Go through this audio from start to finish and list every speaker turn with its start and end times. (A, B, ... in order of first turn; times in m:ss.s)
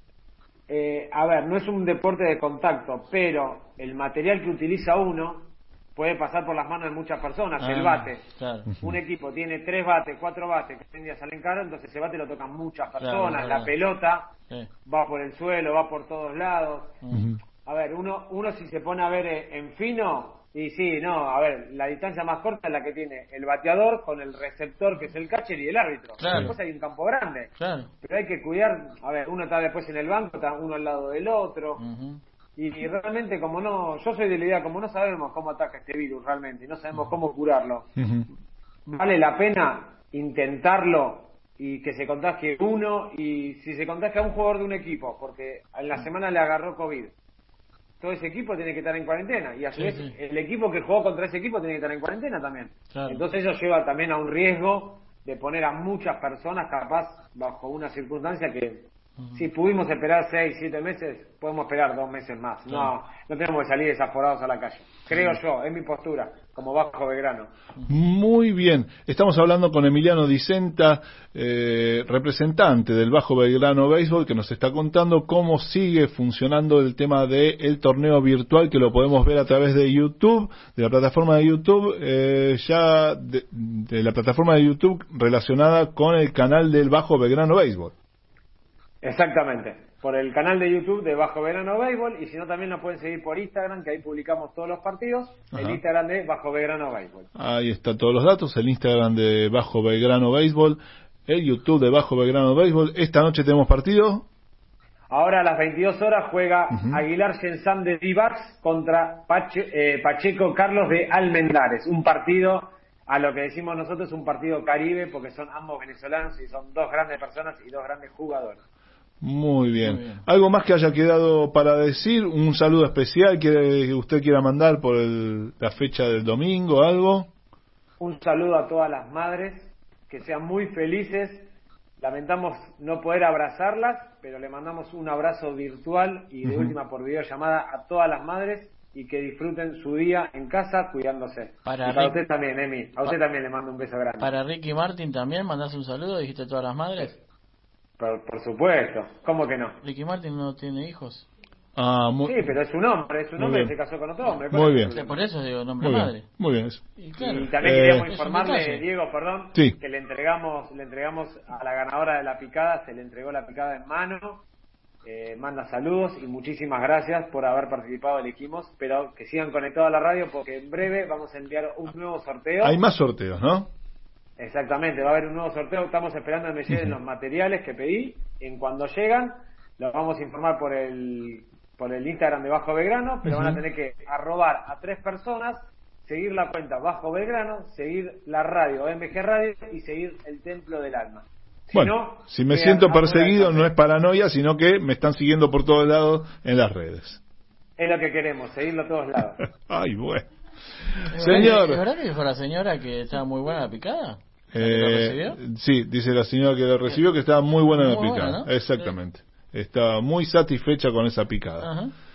0:00.7-0:08.2 A
0:07.6-0:08.7 B
0:08.8-0:14.3 A
0:13.0-0:13.7 B
0:14.8-0:17.0 A
0:17.1-0:17.4 C
0:17.6-0:27.5 A
0:26.2-0:26.5 B
0:27.6-0:27.9 B
0:28.0-0:31.8 A
0:31.8-0:32.2 B
0:32.6-0:37.9 A
0:38.0-0:38.3 C
0:38.9-0:47.1 A
0:48.0-1:07.5 A
0:49.7-0:50.1 B
0:52.9-0:53.2 B
0:59.2-0:59.4 B
1:07.9-1:27.9 C
1:29.0-1:37.3 A
1:35.5-1:35.8 C
1:37.4-1:44.3 C
1:45.1-1:58.6 A
1:46.7-1:47.0 C
1:59.2-2:07.3 C
1:59.8-2:00.2 B
2:08.0-2:11.5 A
2:12.0-2:24.3 A
2:16.4-2:16.7 C
2:21.6-2:22.2 B
2:24.2-2:27.1 B
2:28.0-2:29.8 A
2:29.8-2:31.3 B
2:31.8-2:32.5 C
2:32.2-2:35.2 A
2:33.4-2:33.7 C
2:34.5-2:34.9 C
2:34.9-2:36.2 B
2:35.8-2:36.8 C
2:37.0-2:38.8 B
2:37.2-2:44.4 A
2:37.6-2:38.1 C
2:45.0-2:52.8 A
2:52.6-2:53.7 C
2:54.4-3:13.7 A
3:03.2-3:03.6 C
3:11.7-3:17.2 C
3:17.8-3:19.4 A
3:19.6-3:20.2 C
3:21.1-3:25.4 B
3:21.1-3:21.8 C
3:24.5-3:31.7 C
3:27.7-3:28.9 B
3:31.6-3:31.9 B